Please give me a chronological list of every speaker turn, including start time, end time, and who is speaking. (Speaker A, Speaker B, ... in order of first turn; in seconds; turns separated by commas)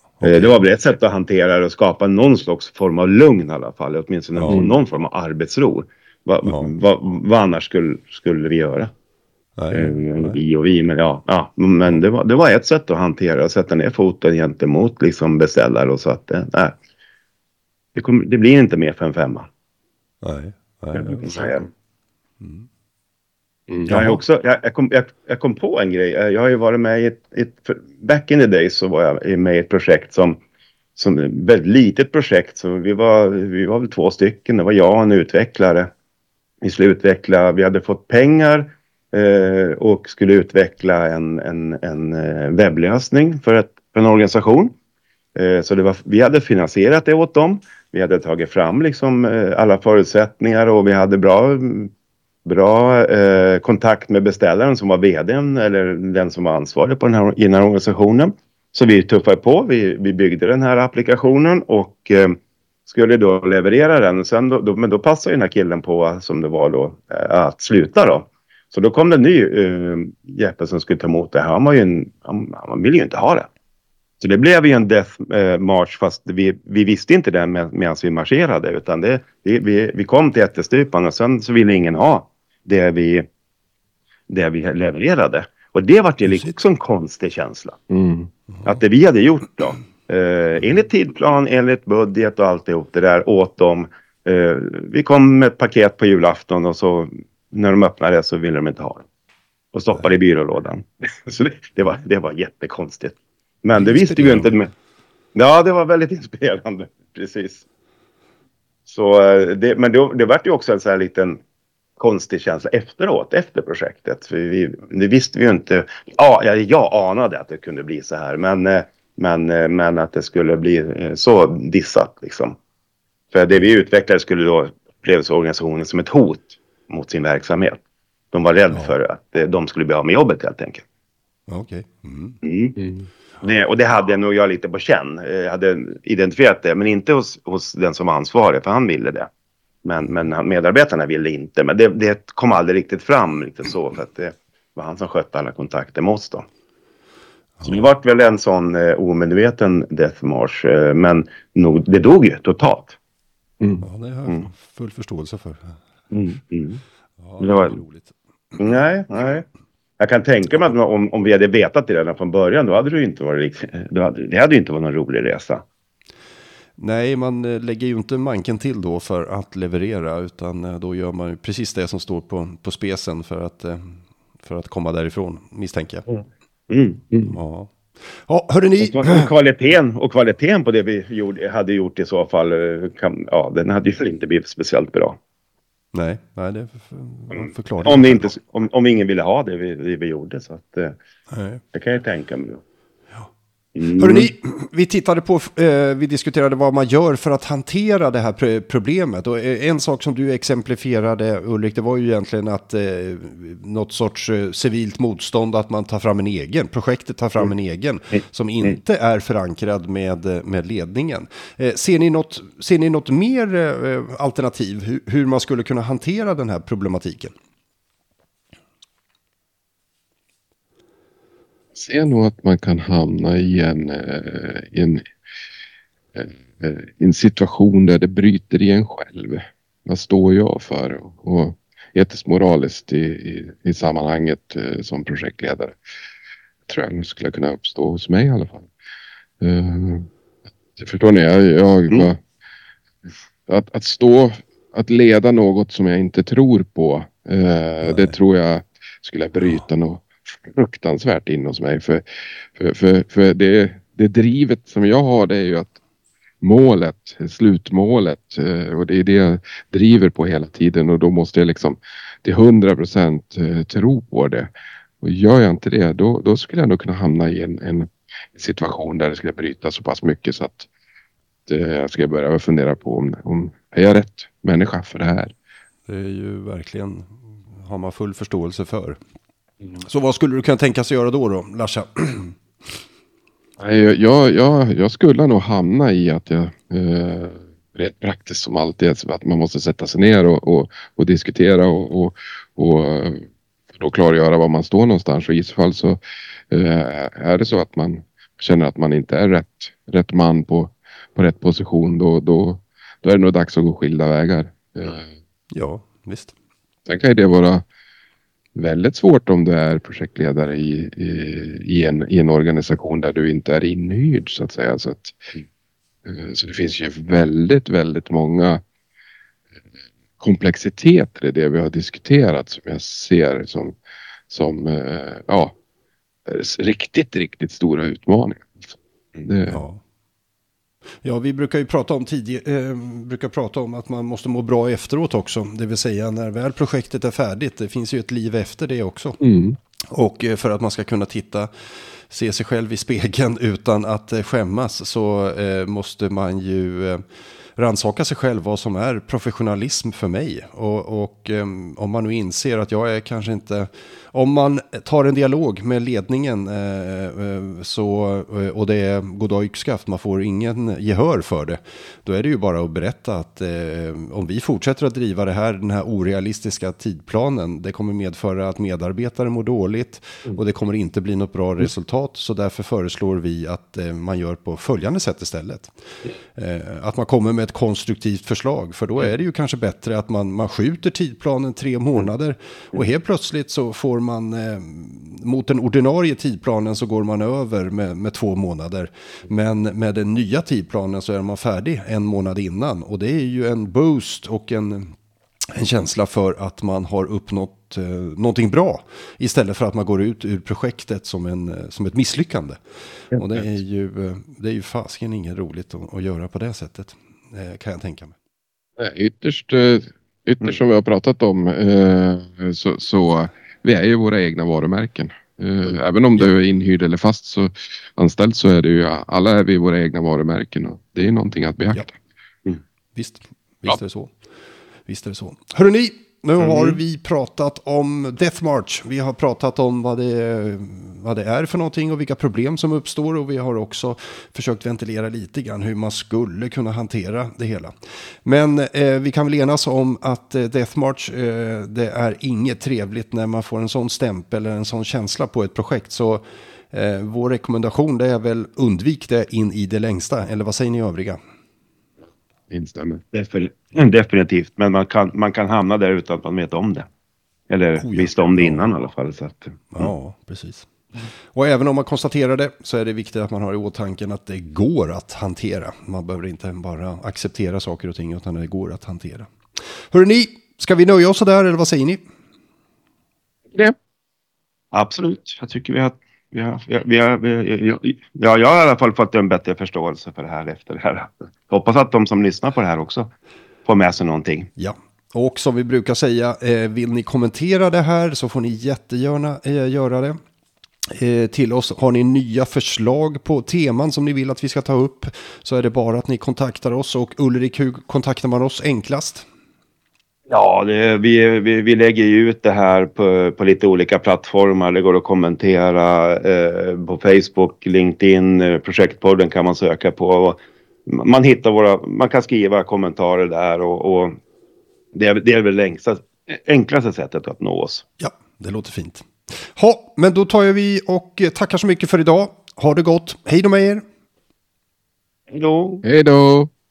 Speaker A: 0.2-0.5, Speaker B: 0.2-8.9, Speaker A: 4.4-4.6, Speaker C: 4.5-4.7, Speaker A: 6.5-6.7, Speaker A: 9.6-10.4, Speaker B: 9.7-16.8, Speaker B: 17.9-19.5, Speaker A: 20.2-21.3, Speaker B: 20.9-21.7, Speaker A: 22.4-22.7, Speaker B: 23.9-30.4, Speaker A: 23.9-24.2, Speaker B: 30.9-35.9, Speaker B: 36.6-44.8, Speaker B: 45.4-51.9, Speaker B: 52.5-73.5, Speaker B: 74.2-83.3, Speaker B: 84.3-87.8, Speaker C: 87.9-88.3, Speaker B: 88.6-99.1, Speaker B: 99.7-104.7, Speaker A: 103.8-104.5, Speaker B: 105.3-107.6, Speaker B: 108.9-111.4, Speaker B: 112.0-122.5, Speaker B: 123.3-127.8, Speaker B: 128.3-130.8, Speaker A: 131.5-132.4, Speaker B: 132.4-132.8, Speaker C: 132.8-133.1, Speaker B: 133.4-139.3, Speaker B: 139.8-146.5, Speaker B: 147.6-153.0, Speaker A: 153.8-155.8, Speaker B: 156.1-156.8, Speaker A: 157.2-158.1, Speaker B: 157.4-157.8, Speaker B: 158.6-159.4, Speaker B: 160.0-165.6, Speaker A: 166.8-176.1, Speaker B: 176.1-177.0, Speaker A: 177.3-179.3, Speaker B: 178.8-185.2, Speaker A: 185.9-188.3, Speaker B: 187.3-190.9, Speaker A: 191.3-191.6, Speaker B: 191.7-192.6, Speaker B: 193.8-194.3, Speaker A: 194.0-217.3, Speaker C: 221.8-225.0, Speaker C: 226.2-235.8, Speaker C: 236.7-238.7, Speaker C: 239.4-240.1, Speaker C: 240.8-242.2, Speaker C: 243.5-252.0, Speaker A: 247.8-248.2, Speaker C: 252.6-255.8, Speaker C: 256.4-264.5, Speaker C: 265.0-270.7, Speaker C: 271.5-275.3, Speaker A: 275.9-279.0, Speaker A: 279.8-282.4, Speaker C: 283.6-293.2, Speaker C: 293.8-296.0, Speaker C: 296.5-305.1, Speaker A: 305.5-306.3, Speaker C: 306.9-307.6, Speaker C: 308.6-315.4, Speaker C: 316.1-318.6, Speaker C: 320.2-323.8, Speaker C: 324.3-325.5, Speaker C: 326.3-329.6, Speaker A: 329.5-329.8, Speaker A: 331.0-339.2, Speaker C: 339.2-339.6, Speaker A: 339.9-341.5, Speaker A: 342.1-347.0, Speaker A: 347.6-375.7, Speaker A: 376.4-394.9, Speaker A: 395.5-402.6, Speaker A: 403.1-408.1, Speaker C: 408.8-421.9, Speaker A: 422.9-424.1, Speaker A: 424.9-451.2, Speaker C: 426.4-426.7, Speaker C: 452.5-453.0, Speaker B: 453.1-456.9, Speaker B: 457.5-459.9, Speaker A: 457.8-458.7, Speaker A: 459.7-460.7, Speaker A: 461.3-469.3, Speaker A: 469.9-472.0, Speaker B: 474.7-483.1, Speaker B: 483.7-484.5, Speaker A: 484.6-490.2, Speaker A: 490.9-499.3, Speaker B: 500.3-514.2, Speaker B: 514.9-517.9, Speaker A: 518.0-523.8, Speaker B: 525.3-525.8, Speaker C: 525.8-526.5